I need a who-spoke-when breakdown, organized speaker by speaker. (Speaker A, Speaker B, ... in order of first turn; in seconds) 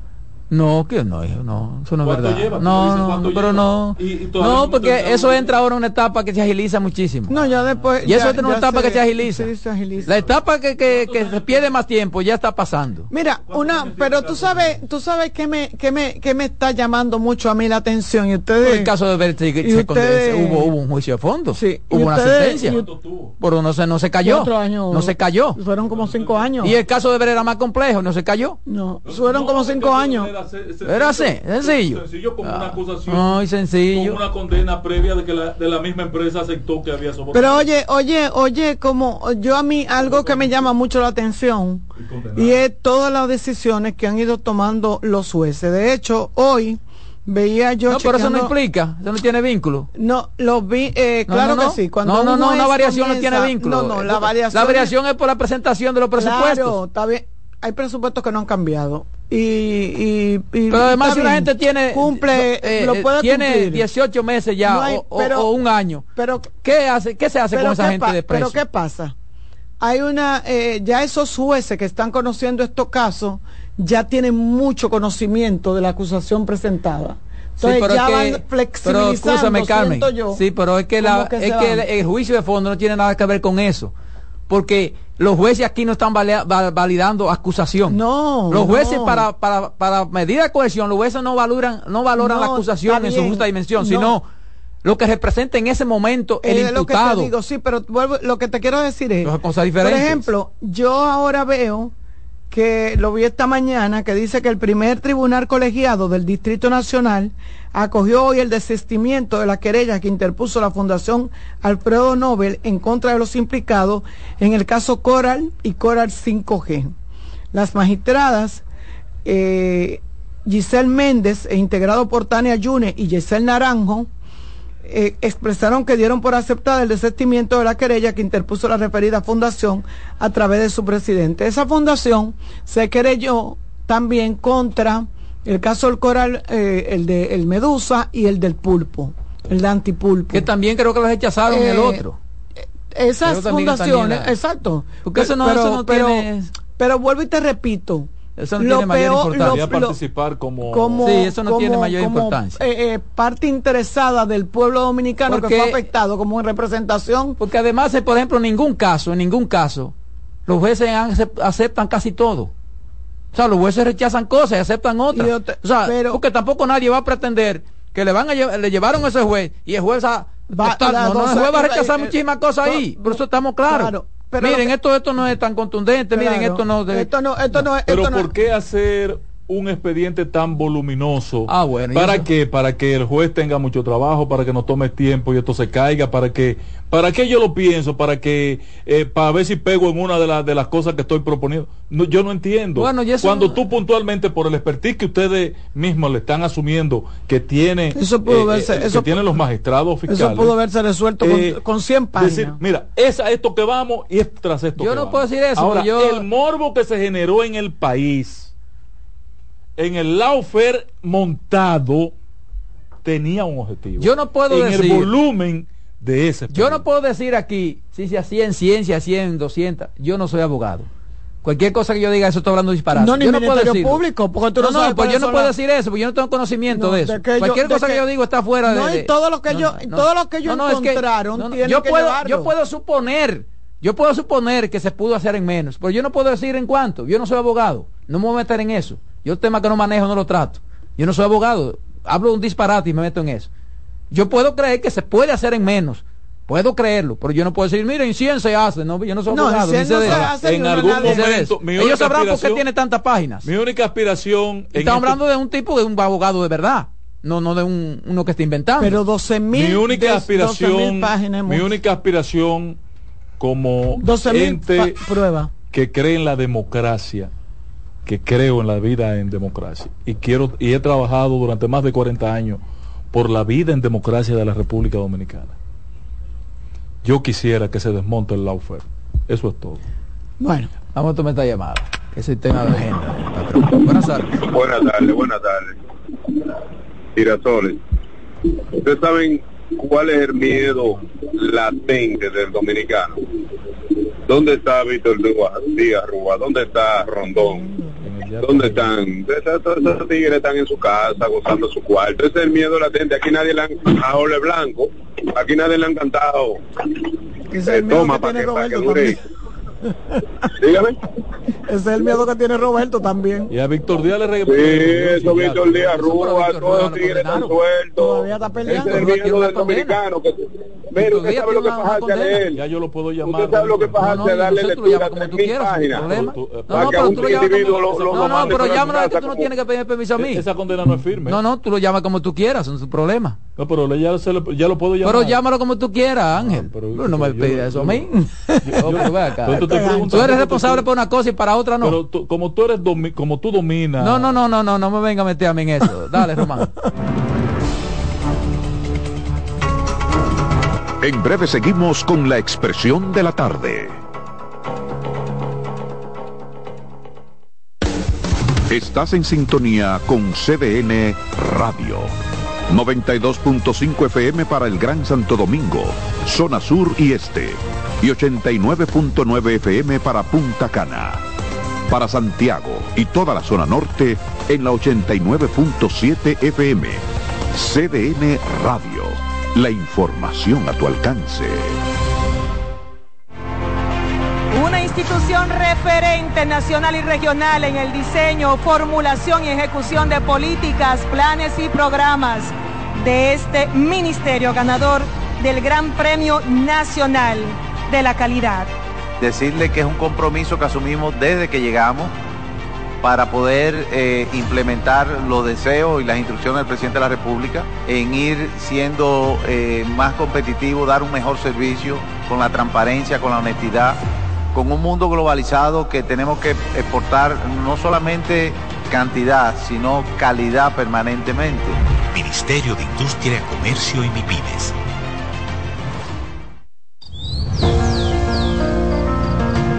Speaker A: 0.5-7.3, 8.0-9.5, 10.1-13.1, 18.6-22.8, 23.4-25.6, 26.6-28.6, 30.9-34.2, 47.9-49.9, 51.3-56.8, 60.7-66.0, 66.6-68.6, 77.6-83.9, 84.5-88.0, 88.5-94.2, 94.8-97.3, 99.2-100.3, 140.3-142.2, 143.2-144.3, 145.0-146.5, 148.3-149.6, 151.0-152.6, 155.3-155.8, 157.4-159.9, 160.5-162.5, 163.3-177.1, 181.5-182.3, 192.8-193.6, 204.8-206.2, 214.0-215.1, 216.5-220.9, 221.4-224.0, 224.6-243.5, 244.1-250.3, 250.8-253.5, 254.8-259.0, 280.9-284.4, 315.9-317.6, 318.6-320.0, 320.9-322.4, 323.9-330.4, 331.2-333.4, 335.0-338.1, 338.8-342.0, 344.0-346.7
Speaker B: 2.0-5.5, 7.3-8.4, 9.9-11.7, 13.5-14.8, 22.6-23.3, 25.8-26.7, 29.0-37.7, 40.0-40.7, 42.0-42.6, 149.4-151.2, 177.6-200.5, 201.2-201.6, 202.2-208.5, 209.8-212.1, 213.0-216.8, 250.0-252.6, 253.4-255.2, 259.5-262.8, 263.4-265.0, 265.7-267.3, 268.1-275.6, 277.0-279.8, 290.5-291.1, 298.0-298.9, 313.5-316.8, 322.5-324.4, 325.9-329.2, 330.2-331.4, 333.6-335.4, 336.3-340.9, 341.8-344.3
Speaker C: 7.3-10.2, 13.1-18.9, 19.6-20.7, 21.5-22.8, 24.2-26.7, 28.7-30.3, 37.3-41.8, 42.4-48.5, 50.0-54.9, 56.2-63.8, 64.7-65.5, 66.2-66.5, 67.5-69.1, 69.8-80.4, 81.0-81.8, 87.9-89.3, 92.2-94.2, 96.4-101.9, 102.5-116.9, 117.5-118.6, 119.2-124.1, 124.8-140.5, 141.5-142.0, 142.9-149.9, 150.7-157.4, 165.1-166.2, 170.5-174.7, 176.1-178.3, 197.9-199.2, 200.1-202.6, 222.9-225.5, 226.7-228.0, 228.7-232.5, 249.3-251.3, 258.8-261.7, 264.0-265.5, 280.4-280.7, 307.5-309.2, 311.7-313.5, 318.0-319.2, 338.2-338.9, 339.5-340.3
Speaker D: 284.4-285.7, 287.1-287.8, 288.7-293.2, 294.3-297.6, 298.4-306.6, 307.6-309.2, 310.6-311.0, 314.5-322.6, 323.2-326.1, 326.7-329.5
Speaker E: 351.0-354.0, 358.7-362.1, 362.7-371.2, 371.9-381.8
Speaker F: 384.5-398.7
Speaker G: 399.2-402.1, 403.0-414.0, 414.5-421.8
Speaker H: 422.1-424.7